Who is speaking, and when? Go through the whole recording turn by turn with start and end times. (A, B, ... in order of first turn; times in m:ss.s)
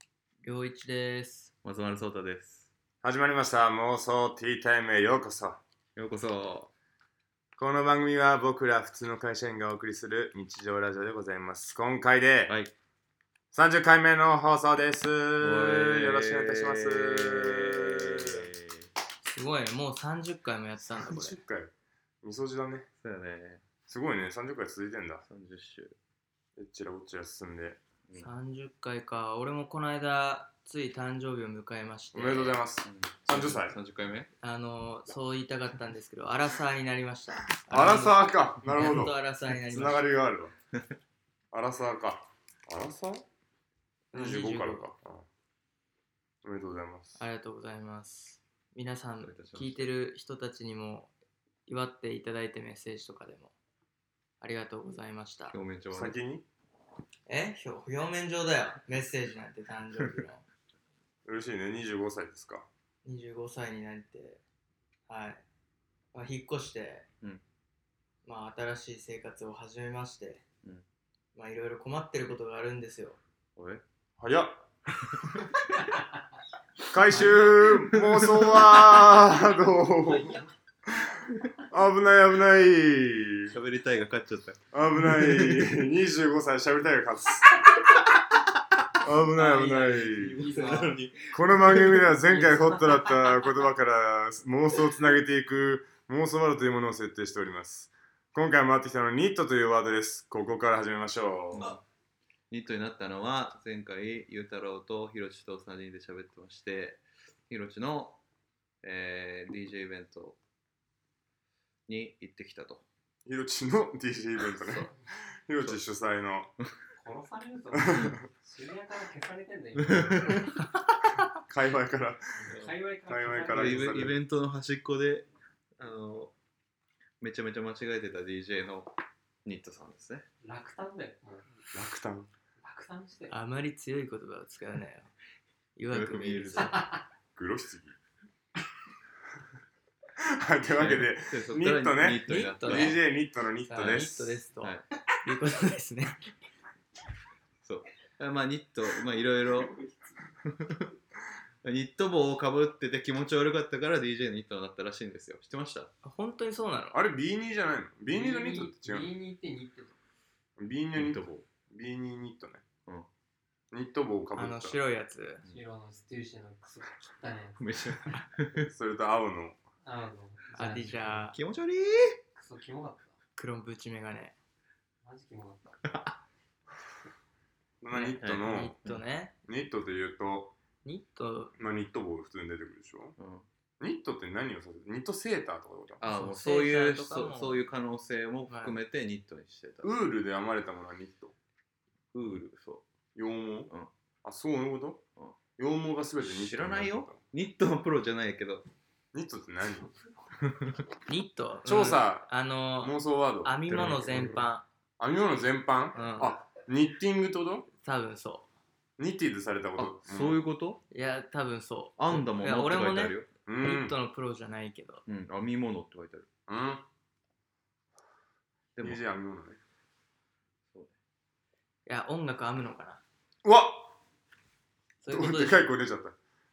0:00.4-0:01.5 A
0:01.6-0:02.7 B
0:03.0-0:05.6 C
0:06.0-0:06.7 B
0:07.6-0:12.5 C
0:12.5-0:12.7 B
0:13.5-0:18.4 C
0:15.4-0:18.9 B
0:19.2-0:21.4 A
0:20.9-0:22.9 C
0:23.0-0:23.6 B
0:23.9-0:25.2 C
0:25.3-0:26.0 B
0:26.6-0:27.8 C
0:28.2-0:32.6 A
0:32.1-0:33.8 C
0:32.8-0:34.3 B
0:34.4-0:40.1 A
0:37.7-0:39.2 C
0:39.7-0:40.5 C
0:41.5-0:43.2 C
0:44.1-0:44.8 A
0:44.1-0:45.2 C
0:46.4-0:47.2 C
0:47.2-0:51.1 A
0:49.2-0:49.8 B
0:51.7-0:53.5 A
0:54.4-0:55.6 A
0:55.5-0:56.2 B
0:55.9-0:56.4 C
0:57.3-1:00.4 A
1:01.2-1:02.7 C
1:03.0-1:04.4 A
1:05.1-1:05.4 A
1:06.1-1:07.0 A
1:08.2-1:10.4 A
1:11.3-1:13.2 A
1:13.6-1:13.8 B
1:14.2-1:14.6 C
1:16.9-1:23.6 C
1:17.1-1:19.1 B
1:23.5-1:25.7 B
1:24.7-1:27.7 C
1:29.0-1:30.5 C
1:29.4-1:30.8 A
1:29.4-1:32.2 B
1:30.4-1:30.9 D
1:31.2-1:41.8 C
1:41.5-1:41.8 B
1:42.5-1:48.2 B
1:48.8-1:50.4 B
1:51.9-1:52.8 B
1:53.2-1:56.5 C
1:54.5-1:54.8 B
1:57.0-2:00.5 D
1:57.8-1:58.2 C
1:59.8-2:00.5 B
2:01.4-2:02.5 C
2:02.4-2:04.1 D
2:02.5-2:02.7 B
2:03.1-2:04.2 C
2:03.5-2:05.2 B
2:05.8-2:06.3 B
2:07.2-2:08.9 B
2:09.4-2:10.2 B
2:10.4-2:11.7 D
2:11.7-2:12.3 C
2:12.6-2:13.3 D
2:13.3-2:15.1 A
2:15.8-2:16.8 A
2:15.9-2:16.8 B
2:16.5-2:17.0 D
2:17.4-2:18.0 C
2:20.2-2:24.4 C
2:20.7-2:23.1 B
2:22.3-2:23.0 A
2:23.6-2:26.2 A
2:23.8-2:24.0 B
2:27.6-2:29.8 B
2:30.4-2:30.9 B
2:31.6-2:35.9 B
2:36.0-2:37.0 A
2:36.9-2:39.1 C
2:38.1-2:40.0 D
2:40.6-2:42.6 C
2:40.9-2:41.5 B
2:43.7-2:44.8 C
2:44.3-2:45.4 A
2:45.5-2:47.9 D
2:47.6-2:48.7 B
2:48.6-2:49.6 C
2:49.8-2:51.3 D
2:50.5-2:51.4 A
2:51.3-2:52.2 B
2:52.3-2:53.2 D
2:53.4-2:54.4 A
2:55.0-2:55.9 D
2:55.9-2:56.2 B
2:57.8-2:58.7 C
2:57.9-2:59.3 A
2:58.2-2:59.0 B
2:59.4-3:00.5 C
3:00.8-3:01.6 A
3:01.6-3:03.2 C
3:03.2-3:03.4 B
3:03.8-3:06.0 C
3:06.0-3:09.9 B
3:06.0-3:07.6 A
3:08.5-3:08.8 A
3:09.8-3:11.3 C
3:12.1-3:12.8 B
3:13.1-3:13.7 C
3:14.2-3:15.0 C
3:15.6-3:17.2 C
3:16.2-3:18.6 B
3:19.1-3:19.9 C
3:20.4-3:20.8 B
3:21.1-3:24.6 A
3:21.6-3:24.4 C
3:23.7-3:24.4 B
3:25.0-3:27.7 C
3:25.9-3:26.4 A
3:27.8-3:28.5 A
3:29.0-3:30.4 C
3:29.8-3:30.8 B
3:30.9-3:35.0 A
3:32.0-3:33.3 B
3:33.5-3:34.0 C
3:35.1-3:36.3 B
3:36.5-3:36.8 C
3:38.8-3:39.0 B
3:38.8-3:39.6 C
3:41.8-3:43.0 A
3:43.4-3:44.0 C
3:45.0-3:45.7 A
3:45.1-3:46.2 C